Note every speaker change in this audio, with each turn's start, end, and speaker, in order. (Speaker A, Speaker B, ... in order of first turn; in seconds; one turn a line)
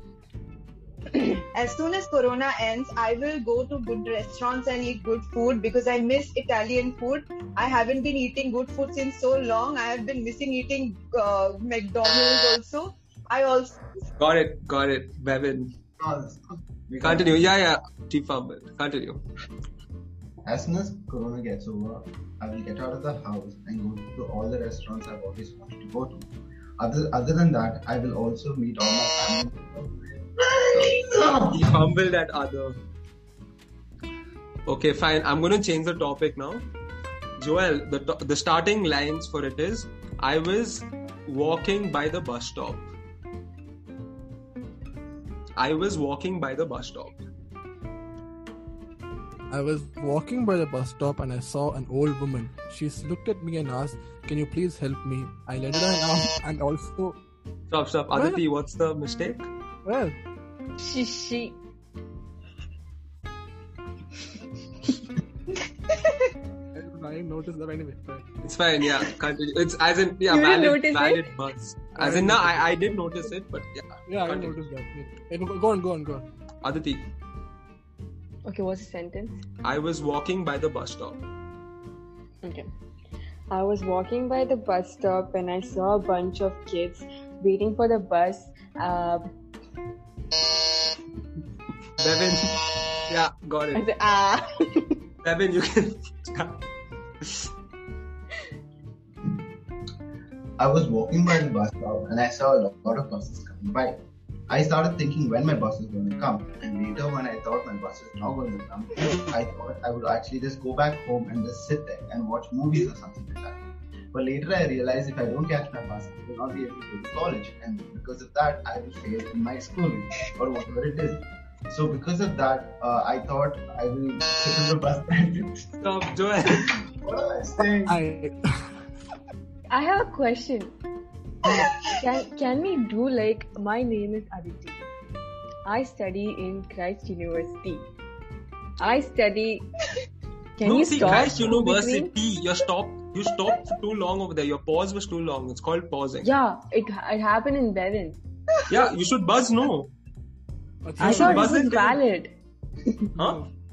Speaker A: 1.5-13.9
Speaker B: 14.2-15.7
Speaker C: 16.0-17.5
Speaker B: 17.0-19.2
Speaker C: 20.4-31.8
Speaker B: 30.7-32.8
Speaker B: 34.6-36.7
Speaker B: 37.4-42.9
Speaker B: 45.5-47.2
Speaker D: 49.5-57.2
Speaker B: 57.7-59.5
Speaker D: 58.1-58.4
Speaker D: 59.8-60.1
Speaker E: 60.8-61.6
Speaker A: 65.9-66.3
Speaker D: 66.7-68.2
Speaker B: 68.4-74.6
Speaker E: 70.3-71.3
Speaker D: 72.0-72.7
Speaker D: 74.1-76.2
Speaker B: 76.6-77.1
Speaker E: 78.5-79.4
Speaker B: 79.6-81.2
Speaker E: 82.4-82.7
Speaker E: 83.5-89.2
Speaker B: 92.0-93.8
Speaker E: 93.7-95.0
Speaker B: 95.2-96.6
Speaker B: 97.2-97.5
Speaker C: 100.6-113.6
Speaker C: 114.1-125.7
Speaker B: 125.8-126.7
Speaker C: 126.6-128.0
Speaker D: 127.8-128.7
Speaker E: 129.7-130.7
Speaker A: 131.5-131.8
Speaker E: 131.6-134.8
Speaker E: 135.7-137.9
Speaker E: 138.8-139.7
Speaker E: 140.6-142.1
Speaker B: 140.6-146.3
Speaker E: 146.2-148.2
Speaker B: 148.7-149.9
Speaker D: 150.8-151.6
Speaker B: 151.0-152.0
Speaker E: 151.0-152.3
Speaker D: 153.2-153.5